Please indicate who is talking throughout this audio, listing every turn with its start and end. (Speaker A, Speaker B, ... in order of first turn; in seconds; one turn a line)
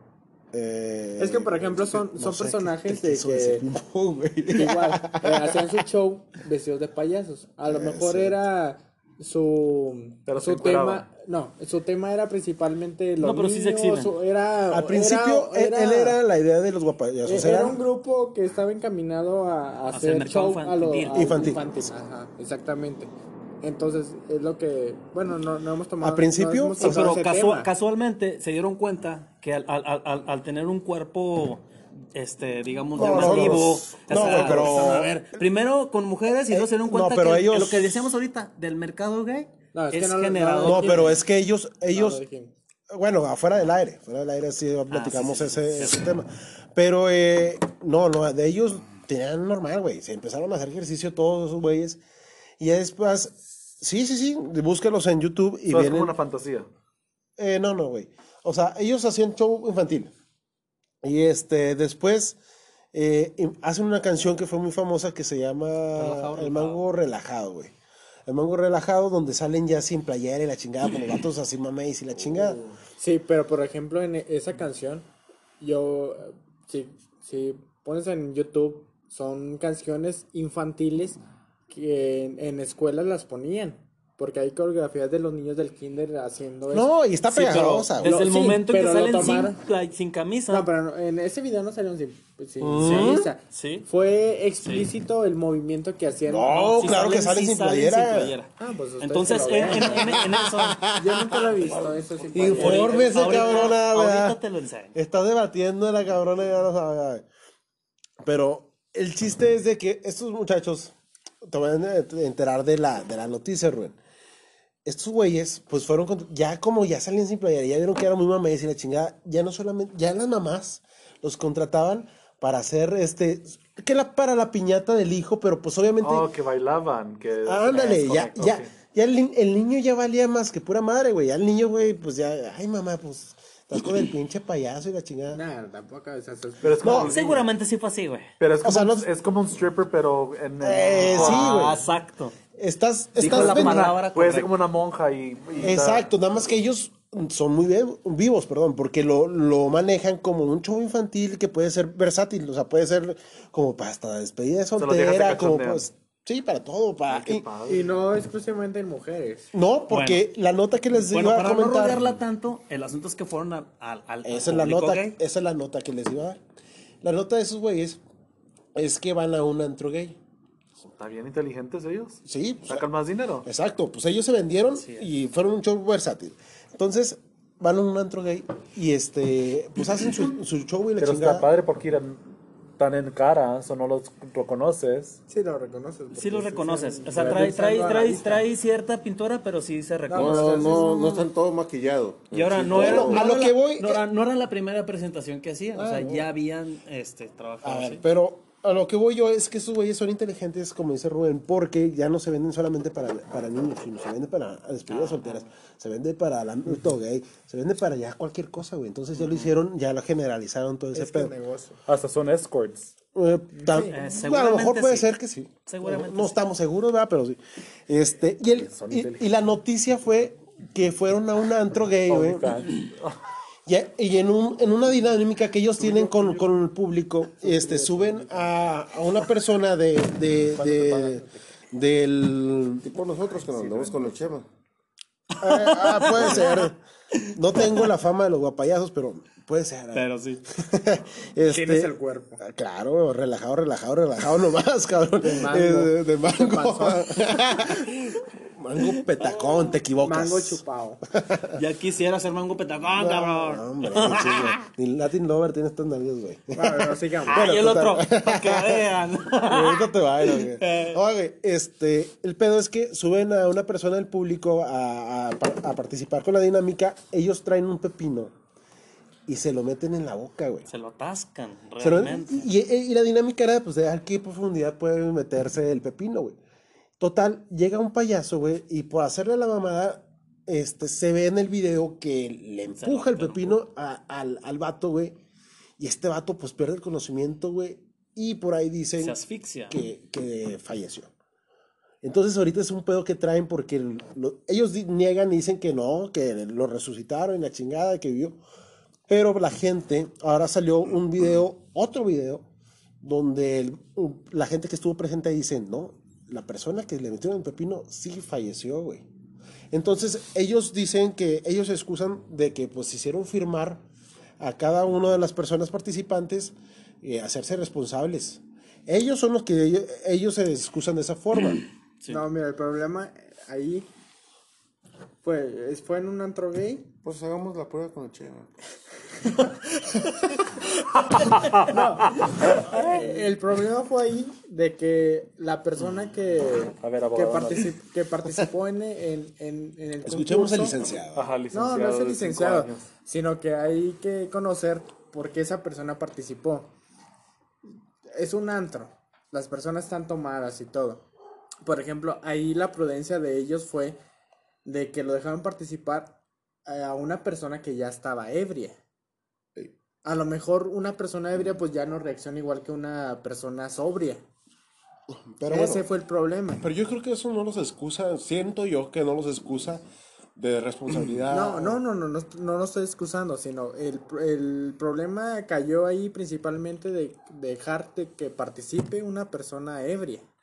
Speaker A: 0.5-5.7
Speaker B: 1.2-3.6
Speaker B: 4.5-16.2
Speaker A: 7.7-8.4
Speaker C: 10.3-11.1
Speaker D: 13.2-14.2
Speaker A: 14.7-17.8
Speaker B: 17.2-23.1
Speaker D: 19.9-21.4
Speaker A: 21.1-21.6
Speaker B: 23.6-27.7
Speaker A: 26.0-27.1
Speaker D: 26.8-41.2
Speaker A: 32.9-35.2
Speaker A: 36.5-38.0
Speaker B: 39.7-41.2
Speaker A: 40.6-42.2
Speaker B: 41.9-42.5
Speaker A: 42.9-52.0
Speaker D: 44.9-46.0
Speaker A: 52.6-56.1
Speaker C: 55.7-56.7
Speaker A: 57.4-60.1
Speaker A: 61.0-62.4
Speaker A: 62.9-67.7
Speaker D: 66.0-66.8
Speaker A: 68.3-72.6
Speaker B: 73.0-75.1
Speaker B: 75.6-86.9
Speaker A: 86.7-88.2
Speaker D: 87.3-90.7
Speaker B: 88.0-89.6
Speaker B: 90.5-96.9
Speaker A: 92.6-93.3
Speaker D: 92.8-93.9
Speaker A: 96.3-98.3
Speaker D: 96.7-100.8
Speaker B: 98.6-100.2
Speaker A: 99.7-101.6
Speaker B: 100.9-103.7
Speaker A: 102.3-104.4
Speaker D: 102.4-104.9
Speaker A: 104.9-107.2
Speaker A: 108.2-114.0
Speaker A: 114.8-126.3
Speaker C: 126.0-128.7
Speaker A: 127.4-135.4
Speaker B: 135.3-137.1
Speaker C: 136.6-137.4
Speaker A: 136.8-137.1
Speaker D: 136.9-138.3
Speaker C: 138.4-141.7
Speaker A: 138.6-139.1
Speaker A: 140.6-141.8
Speaker D: 141.0-142.3
Speaker A: 142.6-143.9
Speaker D: 143.2-144.5
Speaker C: 143.2-146.1
Speaker A: 145.6-157.4
Speaker C: 154.8-155.8
Speaker C: 157.1-157.9
Speaker B: 157.7-159.5
Speaker A: 159.5-162.1
Speaker D: 159.9-160.2
Speaker D: 161.1-165.2
Speaker A: 164.2-166.4
Speaker A: 167.0-168.0
Speaker A: 168.7-170.2
Speaker C: 170.8-173.5
Speaker A: 172.2-172.8
Speaker A: 173.4-181.5
Speaker D: 174.7-175.1
Speaker C: 181.0-182.3
Speaker C: 182.8-185.2
Speaker B: 185.3-188.4
Speaker D: 186.1-190.8
Speaker B: 190.1-191.0
Speaker E: 190.1-193.2
Speaker A: 190.6-191.2
Speaker D: 192.3-198.0
Speaker A: 192.7-194.0
Speaker A: 195.8-196.2
Speaker A: 197.6-211.3
Speaker D: 204.9-205.5
Speaker D: 209.2-209.5
Speaker B: 210.9-211.8
Speaker C: 211.9-212.9
Speaker A: 213.1-222.7
Speaker B: 213.6-213.9
Speaker D: 213.7-215.1
Speaker D: 215.7-216.3
Speaker C: 218.6-219.2
Speaker C: 222.1-223.2
Speaker A: 223.7-232.8
Speaker C: 225.8-226.5
Speaker B: 227.4-228.2
Speaker B: 230.6-231.4
Speaker E: 232.8-234.5
Speaker A: 235.4-236.8
Speaker D: 235.4-237.8
Speaker A: 237.3-251.6
Speaker D: 239.9-240.4
Speaker B: 241.4-242.4
Speaker B: 245.2-247.4
Speaker B: 250.0-251.0
Speaker D: 251.5-254.6
Speaker A: 252.9-258.9
Speaker B: 256.5-257.5
Speaker D: 257.3-261.0
Speaker A: 259.4-268.3
Speaker A: 269.3-270.7
Speaker D: 270.7-272.5
Speaker A: 271.8-276.4
Speaker A: 277.0-285.2
Speaker D: 282.8-283.6
Speaker A: 285.8-289.2
Speaker D: 289.0-289.8
Speaker A: 289.7-291.1
Speaker A: 292.0-298.4
Speaker A: 299.1-302.4
Speaker A: 303.0-309.0
Speaker A: 309.7-313.8
Speaker A: 314.4-321.6
Speaker B: 322.1-323.9
Speaker B: 325.2-326.9
Speaker E: 327.0-328.5
Speaker C: 331.1-332.6
Speaker B: 331.6-340.8
Speaker C: 336.8-337.7
Speaker A: 340.0-341.3
Speaker C: 341.1-342.9
Speaker B: 341.5-346.7
Speaker B: 348.1-351.0
Speaker B: 351.6-354.0
Speaker B: 354.6-358.8
Speaker B: 360.0-364.2
Speaker A: 365.1-365.9
Speaker B: 365.5-366.7
Speaker A: 366.6-369.8
Speaker A: 370.4-371.8
Speaker B: 371.3-380.2